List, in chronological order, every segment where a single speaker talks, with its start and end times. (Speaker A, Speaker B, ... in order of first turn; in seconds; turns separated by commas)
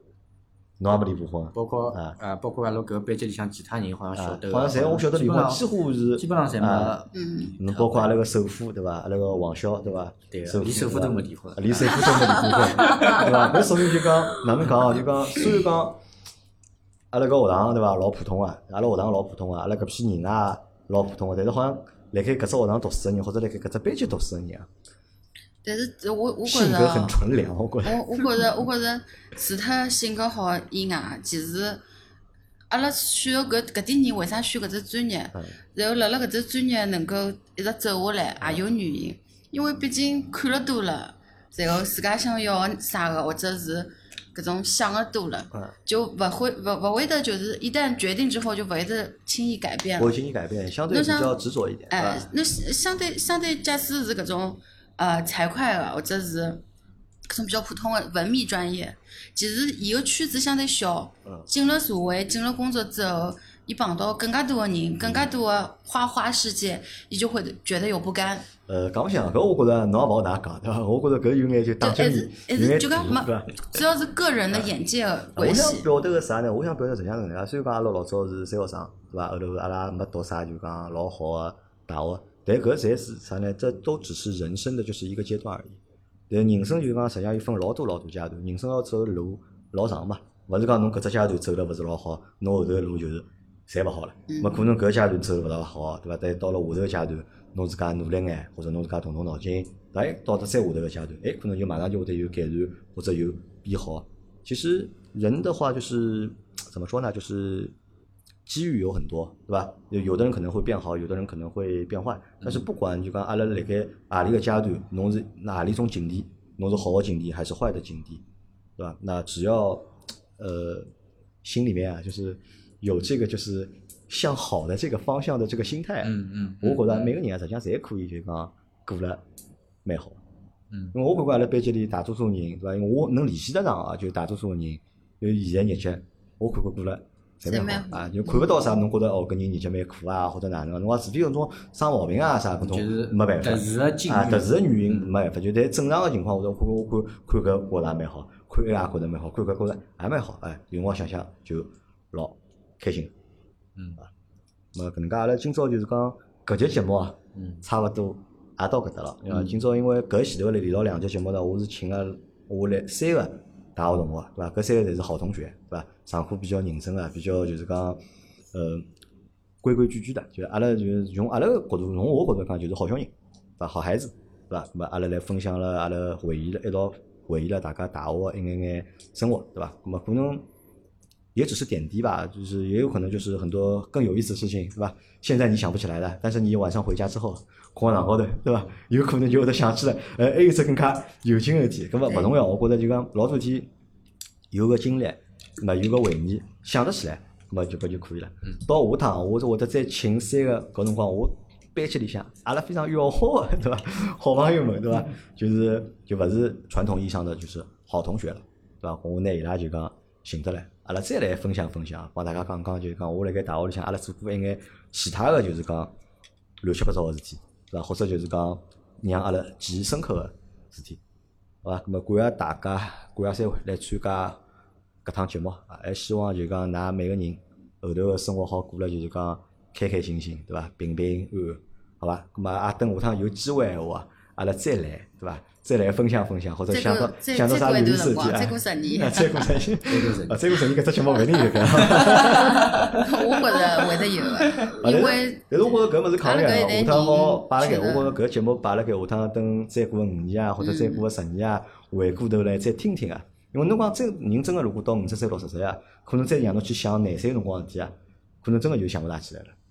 Speaker A: 0.8-2.1, Speaker B: 1.5-8.1, Speaker A: 4.1-7.0, Speaker C: 7.1-7.5, Speaker A: 7.6-16.0, Speaker B: 10.3-13.3, Speaker A: 17.1-24.7, Speaker C: 25.6-27.2, Speaker A: 26.4-28.4, Speaker C: 27.8-31.8, Speaker C: 32.7-50.1, Speaker A: 50.0-52.3, Speaker C: 50.9-51.3, Speaker C: 51.9-56.6, Speaker C: 57.3-68.5, Speaker A: 65.0-65.3, Speaker A: 68.7-73.8, Speaker C: 71.8-75.8, Speaker A: 75.3-85.8, Speaker A: 86.3-107.7, Speaker C: 94.3-94.7, Speaker A: 108.5-118.2, Speaker A: 118.8-120.9, Speaker A: 121.4-129.2, Speaker B: 126.0-127.2, Speaker A: 129.8-130.2, Speaker B: 130.7-130.9, Speaker A: 130.9-153.1, Speaker C: 137.4-138.5, Speaker B: 142.6-145.1, Speaker B: 153.8-154.0, Speaker A: 154.7-168.0, Speaker B: 157.3-157.6, Speaker B: 159.3-159.6, Speaker A: 168.5-168.9, Speaker A: 169.6-180.4, Speaker A: 181.3-193.7, Speaker A: 194.5-215.9, Speaker A: 216.6-221.0, Speaker A: 221.6-224.4, Speaker A: 225.0-243.0, Speaker C: 236.7-239.6, Speaker B: 239.9-240.5, Speaker B: 241.7-243.0, Speaker C: 242.2-245.4, Speaker A: 244.6-259.5, Speaker C: 246.2-248.2, Speaker C: 250.6-251.0